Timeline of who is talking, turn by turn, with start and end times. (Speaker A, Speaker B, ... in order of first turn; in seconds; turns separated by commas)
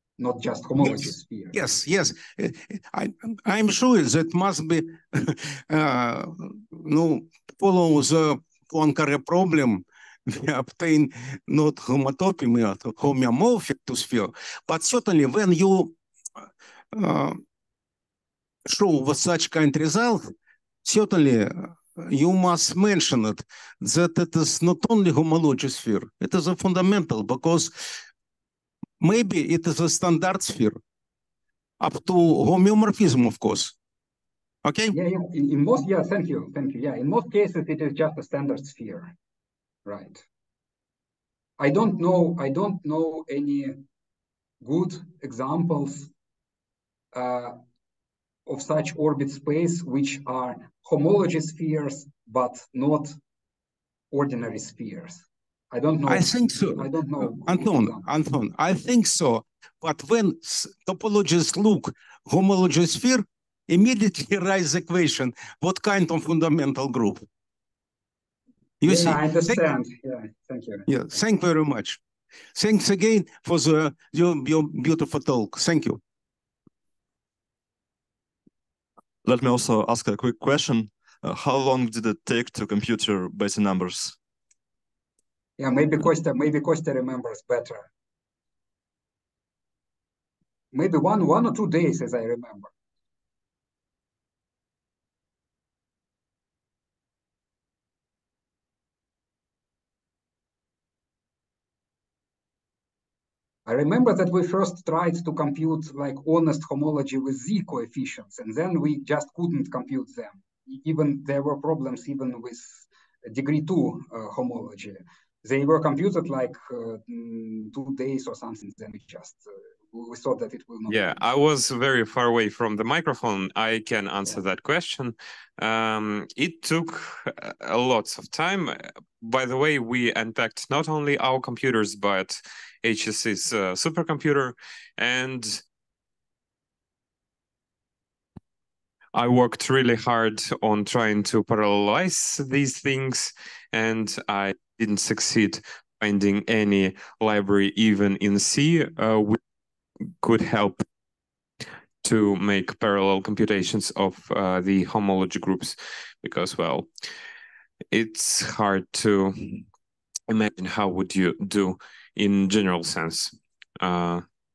Speaker A: 0.2-1.6, Speaker B: 0.8-15.9, Speaker B: 16.9-17.4, Speaker B: 18.6-20.3, Speaker B: 20.8-27.8, Speaker B: 29.0-30.8, Speaker B: 31.8-33.7, Speaker B: 34.6-35.0, Speaker A: 34.9-39.1, Speaker A: 39.9-40.2, Speaker A: 41.6-43.8, Speaker A: 44.6-46.1, Speaker A: 47.1-47.6, Speaker A: 48.5-53.1, Speaker A: 54.1-58.0, Speaker B: 56.1-67.2, Speaker B: 68.8-69.6, Speaker A: 68.8-70.9, Speaker B: 70.9-72.0, Speaker B: 72.5-76.0, Speaker C: 79.2-84.2, Speaker A: 85.6-87.9, Speaker A: 90.7-92.7, Speaker A: 103.7-121.3, Speaker D: 120.9-135.6, Speaker D: 139.1-149.4, Speaker D: 150.2-150.8, Speaker D: 152.0-156.9, Speaker D: 157.9-159.6, Speaker D: 160.3-164.2